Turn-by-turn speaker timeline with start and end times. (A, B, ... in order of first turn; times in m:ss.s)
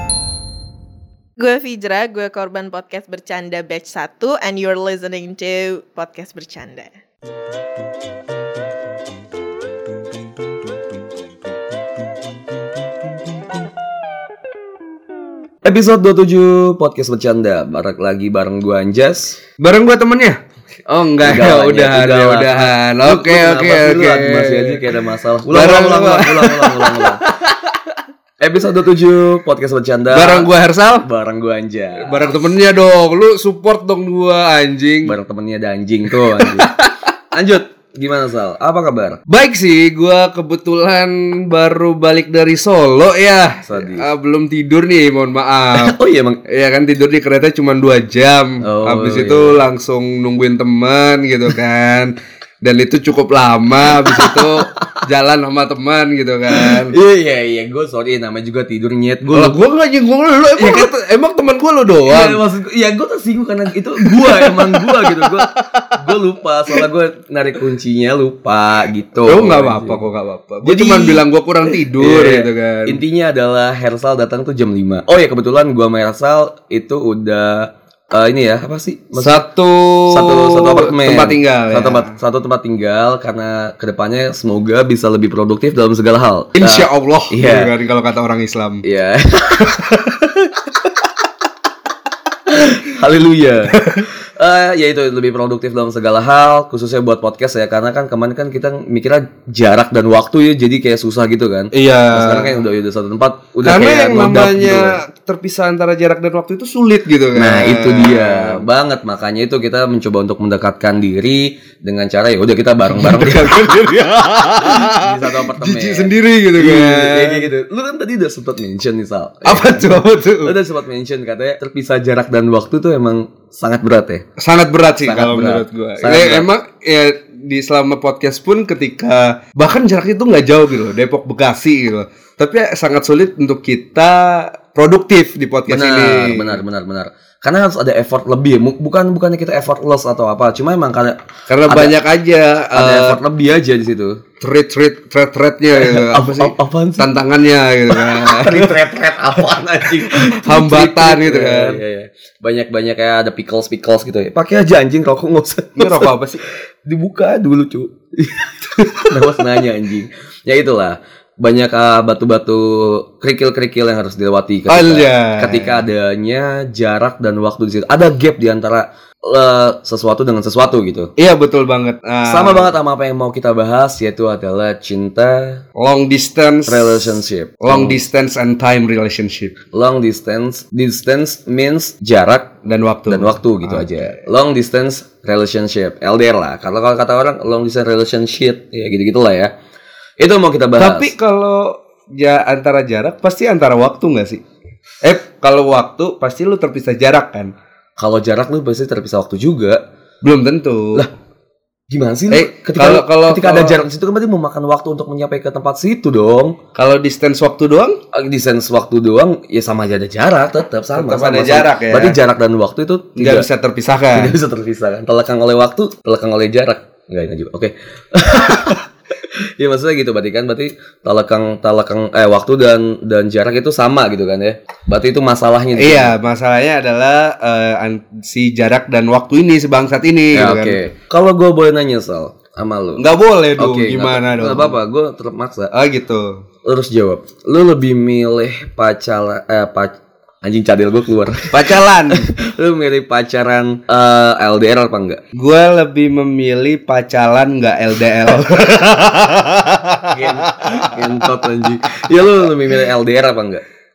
0:01.4-0:06.9 A
0:15.6-0:19.4 B
0:19.6-0:27.5 C
0:21.2-0:27.2 B
0:28.4-0:30.5 B
0:30.1-0:31.0 C
0:31.0-0:32.4 B
0:32.0-0:35.2 C
0:35.0-0:36.8 B
0:36.1-0:36.9 C
0:37.3-0:39.2 B
0:39.3-0:45.9 C
0:43.6-0:44.0 B
0:45.7-0:46.4 B
0:46.5-0:56.9 C
0:48.6-0:49.6 B
0:54.0-0:55.0 B
0:56.5-0:59.6 B
0:59.3-1:02.4 C
1:00.6-1:00.9 B
1:02.0-1:10.0 B
1:04.0-1:05.9 C
1:09.2-1:13.0 C
1:10.6-1:11.2 B
1:11.9-1:19.4 B
1:19.1-1:22.1 C
1:20.1-1:27.7 B
1:26.6-1:28.8 C
1:28.8-1:29.9 B
1:29.7-1:30.3 C
1:32.5-1:45.0 B
1:33.7-1:34.0 C
1:41.7-1:42.6 C
1:43.6-1:48.6 C
1:47.3-1:53.7 B
1:52.9-1:57.5 C
1:54.6-2:04.2 B
1:59.4-2:00.5 C
2:04.4-2:16.6 C
2:05.0-2:06.5 B
2:15.7-2:22.0 B
2:21.5-2:23.2 C
2:22.7-2:24.2 B
2:24.4-2:28.8 C
2:25.8-2:27.1 B
2:27.9-2:51.1 B
2:29.4-2:31.8 C
2:35.8-2:36.4 C
2:38.8-2:39.4 C
2:44.7-2:45.8 C
2:51.2-2:52.7 C
2:52.2-2:55.6 B
2:55.8-2:59.6 C
2:56.7-2:58.0 B
2:59.7-3:02.5 B
3:02.6-3:03.9 C
3:03.1-3:09.5 B
3:10.2-3:11.1 B
3:10.8-3:14.4 C
3:15.0-3:17.5 C
3:18.0-3:19.8 B
3:20.2-3:21.1 C
3:21.9-3:26.6 B
3:22.3-3:23.8 C
3:26.7-3:28.0 C
3:28.1-3:33.5 B
3:30.9-3:32.2 C
3:33.2-3:34.4 C
3:34.1-3:46.1 B
3:45.8-3:50.8 C
3:50.3-3:53.0 B
3:53.0-3:54.8 C
3:53.6-3:55.7 B
3:55.7-3:56.4 C
3:56.6-4:05.2 B
4:01.5-4:02.3 C
4:05.3-4:11.4 C
4:10.1-4:13.6 B